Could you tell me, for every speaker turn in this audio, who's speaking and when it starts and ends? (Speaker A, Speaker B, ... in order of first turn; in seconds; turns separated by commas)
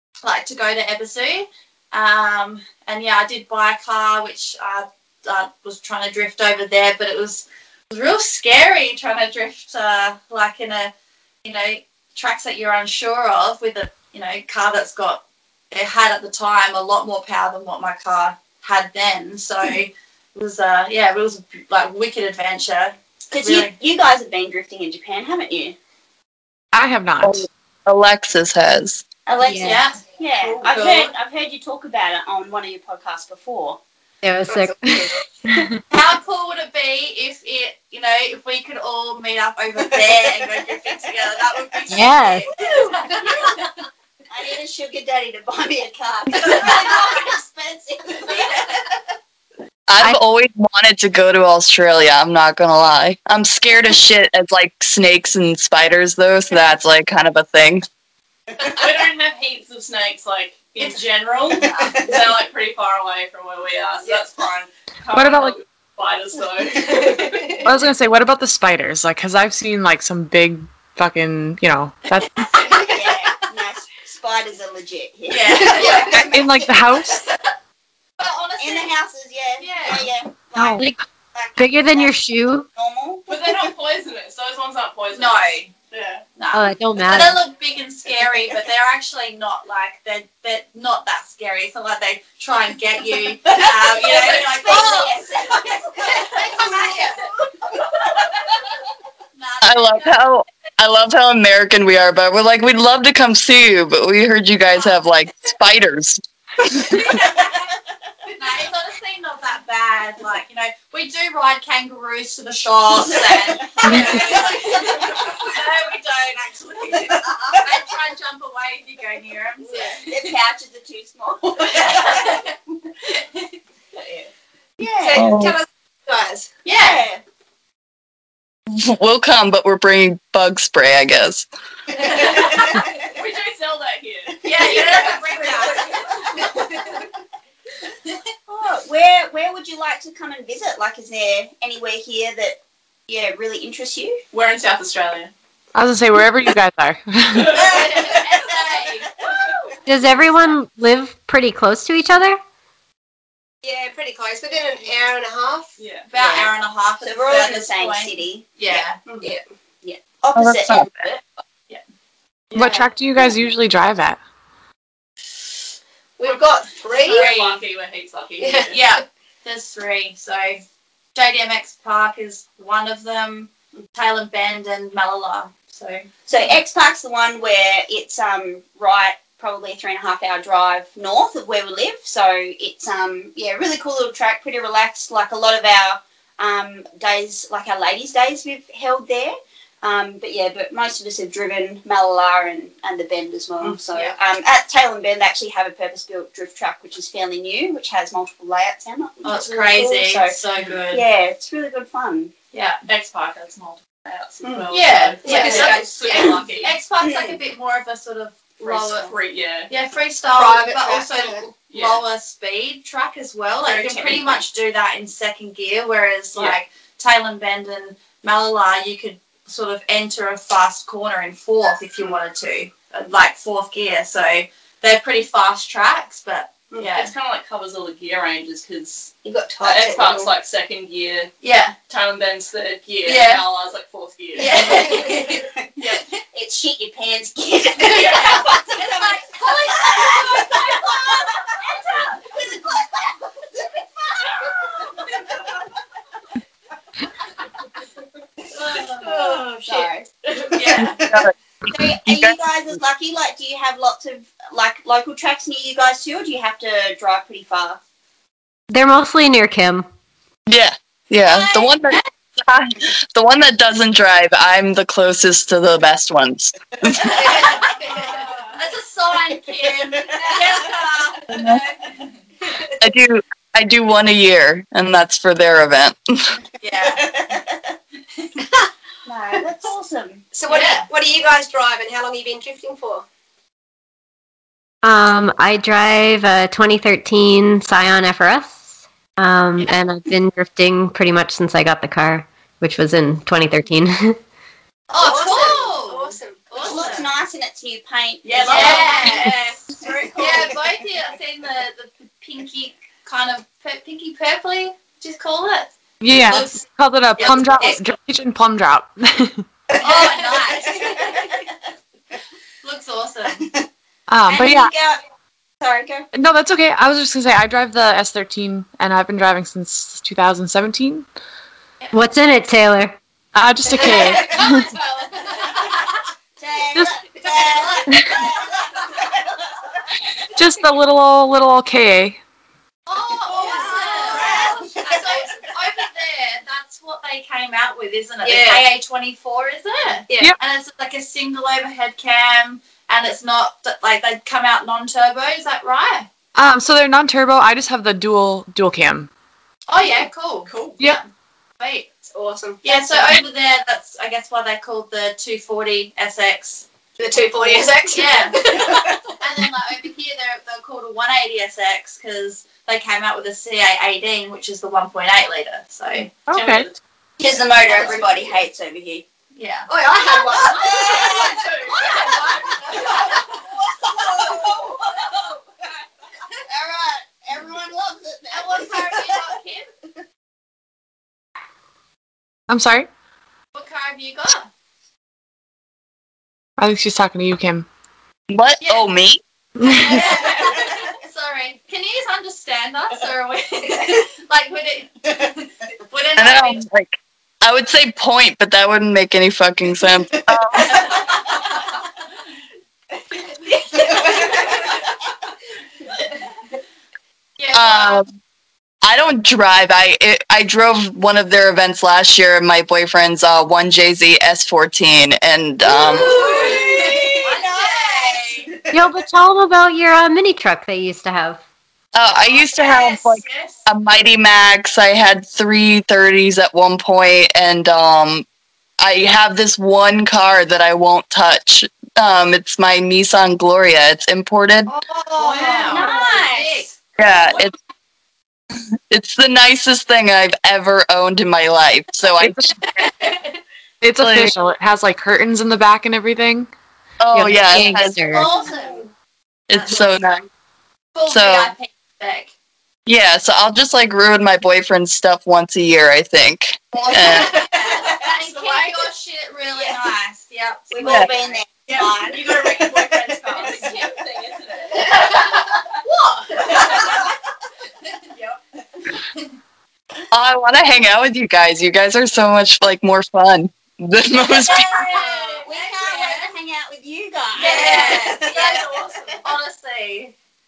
Speaker A: 0.2-10.9, Speaker A: 11.4-15.2, Speaker A: 15.7-23.7, Speaker B: 23.3-25.8, Speaker C: 26.7-27.5, Speaker D: 27.2-29.0, Speaker B: 29.3-33.8, Speaker E: 29.4-29.8, Speaker A: 29.6-30.0, Speaker A: 30.6-31.1, Speaker E: 34.2-35.7, Speaker F: 34.5-35.0, Speaker A: 35.9-43.5, Speaker B: 39.9-41.8, Speaker E: 41.9-42.5, Speaker B: 44.3-49.0, Speaker D: 49.9-57.9, Speaker G: 58.6-67.6, Speaker B: 61.6-62.3, Speaker C: 65.1-65.6, Speaker F: 66.8-67.7, Speaker C: 67.6-72.5, Speaker B: 72.5-76.6, Speaker A: 75.3-76.2, Speaker F: 75.8-76.3, Speaker C: 76.1-77.2, Speaker A: 78.2-78.9, Speaker B: 78.6-83.7, Speaker A: 79.6-80.0, Speaker E: 80.6-81.0, Speaker E: 81.6-82.7, Speaker G: 83.3-86.2, Speaker A: 85.1-85.7, Speaker A: 86.4-95.2, Speaker E: 86.5-87.4, Speaker B: 94.0-97.1, Speaker G: 94.1-94.4, Speaker F: 96.3-97.3, Speaker A: 99.3-100.2, Speaker D: 99.6-107.2, Speaker A: 108.3-120.3, Speaker B: 113.3-114.7, Speaker C: 113.8-114.2, Speaker B: 117.0-117.6, Speaker B: 119.9-122.4, Speaker A: 121.7-122.4, Speaker B: 124.8-125.3, Speaker F: 125.0-126.5, Speaker D: 125.2-125.6, Speaker A: 126.7-127.1, Speaker B: 126.8-127.2, Speaker D: 128.7-131.5, Speaker G: 132.0-136.0, Speaker A: 134.4-136.0, Speaker B: 135.3-136.0, Speaker B: 138.5-144.2, Speaker G: 144.3-145.3, Speaker C: 145.8-147.7, Speaker A: 147.5-149.1, Speaker B: 147.7-148.3, Speaker B: 149.3-149.5, Speaker E: 149.8-152.4, Speaker F: 153.6-155.7, Speaker G: 155.8-156.1, Speaker A: 156.1-159.0, Speaker B: 156.2-158.8, Speaker B: 159.8-161.2, Speaker D: 160.4-160.9, Speaker C: 162.5-164.2, Speaker A: 162.6-162.8, Speaker F: 166.2-167.4, Speaker G: 167.0-168.8, Speaker A: 167.1-167.6, Speaker F: 168.4-168.8, Speaker A: 168.7-170.6, Speaker A: 171.2-176.1, Speaker B: 176.3-202.3, Speaker A: 199.2-201.1, Speaker A: 202.5-202.8, Speaker G: 202.9-206.8, Speaker A: 204.7-209.1, Speaker F: 205.2-205.9, Speaker B: 207.0-207.4, Speaker G: 208.6-209.7, Speaker A: 209.7-227.1, Speaker F: 210.4-211.4, Speaker G: 211.7-212.0, Speaker G: 213.7-214.4, Speaker G: 226.7-231.3, Speaker B: 229.2-230.3, Speaker A: 231.4-231.8, Speaker G: 231.9-234.9, Speaker A: 233.1-233.4, Speaker A: 234.4-235.5, Speaker B: 235.3-235.6, Speaker G: 235.8-236.0, Speaker B: 236.3-245.7, Speaker A: 237.9-240.9, Speaker A: 248.5-249.9, Speaker B: 248.7-250.1, Speaker A: 250.5-251.0, Speaker D: 250.8-252.3, Speaker B: 251.7-257.8, Speaker E: 258.7-259.9, Speaker D: 260.5-267.5, Speaker A: 261.2-262.1, Speaker A: 267.0-271.6, Speaker G: 268.1-268.4, Speaker B: 270.1-270.6, Speaker D: 271.3-271.6, Speaker D: 272.8-276.4, Speaker A: 276.6-277.1, Speaker B: 276.8-277.7, Speaker B: 279.1-280.2, Speaker F: 280.3-283.1, Speaker A: 280.5-280.9, Speaker E: 284.8-288.6, Speaker E: 289.2-294.2, Speaker A: 294.9-297.1, Speaker F: 295.0-296.4, Speaker B: 296.6-299.3, Speaker G: 298.2-300.6, Speaker A: 298.5-299.6, Speaker A: 300.2-306.6, Speaker C: 306.0-309.4, Speaker A: 307.2-307.9, Speaker B: 309.7-311.4, Speaker A: 309.8-311.4, Speaker A: 312.6-313.5, Speaker B: 313.4-313.7, Speaker C: 314.1-314.7, Speaker B: 314.3-315.0, Speaker B: 315.6-316.1, Speaker C: 316.1-321.1, Speaker E: 321.9-323.0, Speaker C: 323.3-324.4, Speaker E: 323.7-324.7, Speaker F: 323.8-325.7, Speaker B: 323.9-324.4, Speaker B: 326.4-329.4, Speaker A: 327.2-328.2, Speaker C: 330.4-332.2, Speaker A: 332.9-346.1, Speaker B: 333.3-335.3, Speaker F: 333.5-334.5, Speaker F: 338.2-338.7, Speaker F: 340.1-340.4, Speaker C: 346.4-349.1, Speaker A: 349.7-351.1, Speaker G: 350.5-350.8, Speaker A: 351.6-351.9, Speaker F: 352.1-352.8, Speaker A: 352.6-356.7, Speaker F: 357.0-359.1, Speaker A: 357.9-358.4, Speaker A: 359.2-366.1, Speaker C: 366.3-366.7, Speaker G: 366.3-366.8, Speaker B: 367.2-369.1, Speaker G: 367.5-368.4, Speaker A: 369.4-369.7, Speaker F: 369.7-371.4, Speaker A: 370.3-373.2, Speaker B: 370.4-371.4, Speaker G: 370.4-372.8, Speaker B: 372.0-373.2, Speaker B: 373.7-374.8, Speaker A: 374.2-375.1, Speaker B: 376.4-379.3, Speaker A: 378.3-379.7, Speaker C: 382.5-382.9, Speaker A: 383.6-384.5, Speaker C: 386.6-387.7, Speaker D: 388.3-389.2, Speaker A: 388.6-388.9, Speaker A: 389.6-396.6, Speaker D: 396.2-401.2, Speaker A: 400.7-401.1, Speaker B: 403.7-404.7, Speaker A: 403.9-404.4, Speaker A: 407.4-408.0, Speaker D: 407.5-408.1, Speaker D: 408.8-416.3, Speaker B: 415.6-418.9, Speaker A: 415.7-418.5, Speaker F: 416.6-417.0, Speaker E: 418.7-421.4, Speaker D: 421.9-428.3, Speaker A: 422.9-423.5, Speaker D: 428.8-434.7, Speaker A: 434.7-436.7, Speaker G: 435.2-435.9, Speaker F: 435.4-436.7, Speaker D: 437.0-437.6, Speaker D: 438.9-442.5, Speaker C: 442.2-442.5, Speaker A: 442.8-443.2, Speaker C: 443.8-446.5, Speaker D: 444.0-444.4, Speaker D: 447.0-448.0, Speaker E: 447.1-448.4, Speaker A: 448.1-448.9, Speaker D: 449.5-450.3, Speaker A: 449.5-450.0, Speaker A: 450.9-452.3, Speaker D: 451.1-451.5, Speaker D: 452.9-457.5, Speaker A: 456.7-461.4, Speaker G: 458.1-458.7, Speaker B: 460.7-462.8, Speaker D: 460.8-461.1, Speaker G: 461.7-465.6, Speaker B: 463.4-463.9, Speaker F: 464.8-466.9, Speaker G: 466.4-466.9, Speaker D: 470.1-474.9, Speaker A: 474.3-476.3, Speaker G: 474.5-475.4, Speaker F: 475.0-475.3, Speaker B: 475.4-479.0, Speaker G: 477.3-479.0, Speaker A: 477.4-478.7, Speaker A: 479.2-480.1